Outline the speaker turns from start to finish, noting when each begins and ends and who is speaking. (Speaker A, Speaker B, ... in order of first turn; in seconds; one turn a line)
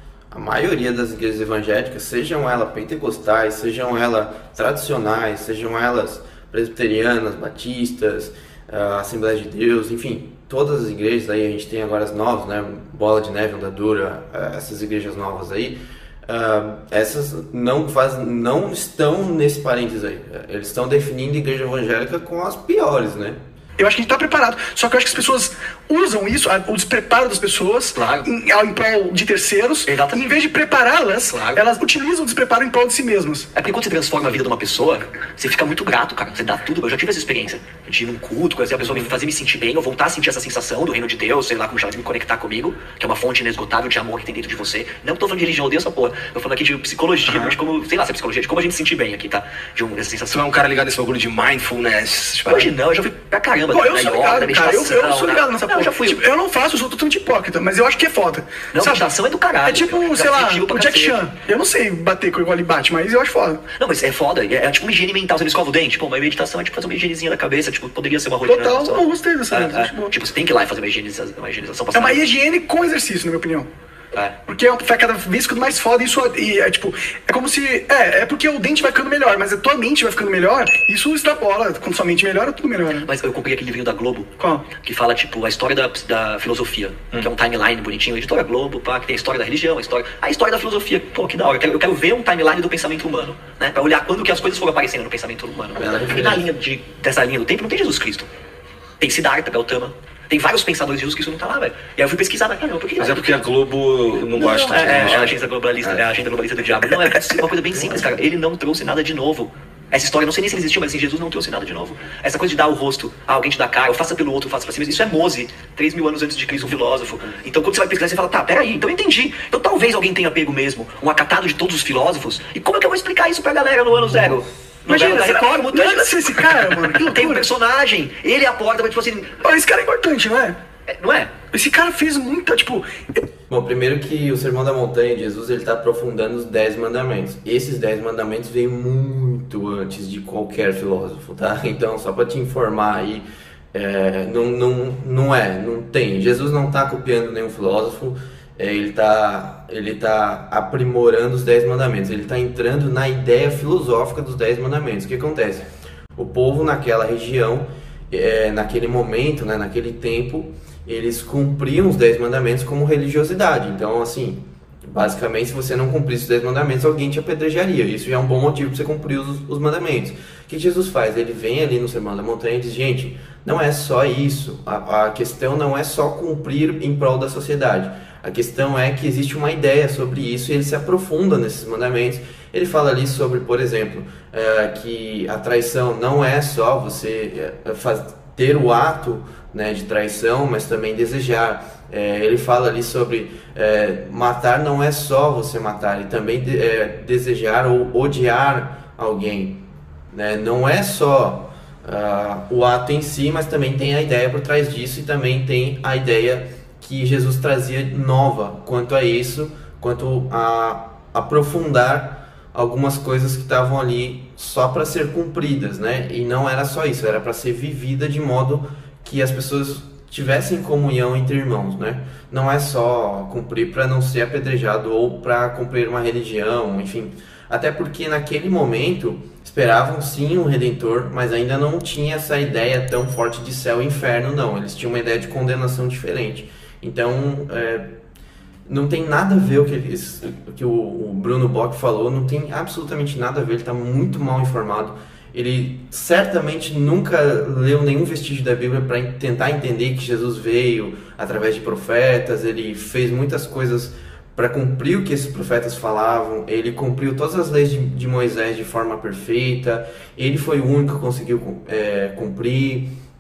Speaker A: 0.3-23.4
Speaker B: 23.8-33.5
Speaker C: 27.9-28.3
Speaker C: 29.9-30.3
Speaker C: 31.2-31.6
Speaker C: 33.5-50.4
Speaker D: 47.3-47.5
Speaker D: 50.3-52.8
Speaker C: 52.5-56.2
Speaker B: 53.7-59.0
Speaker C: 58.7-61.2
Speaker B: 59.6-63.6
Speaker C: 63.8-72.2
Speaker B: 68.5-70.1
Speaker B: 71.9-73.7
Speaker B: 74.5-83.1
Speaker C: 83.0-98.3
Speaker B: 84.4-84.7
Speaker A: 95.8-96.4
Speaker C: 99.0-103.3
Speaker D: 103.0-106.0
Speaker B: 104.4-104.7
Speaker C: 104.6-129.4
Speaker B: 124.9-127.5
Speaker B: 129.4-130.6
Speaker C: 130.9-131.3
Speaker B: 131.5-133.2
Speaker A: 133.5-155.7
Speaker A: 156.2-237.8
Speaker A: 238.7-262.9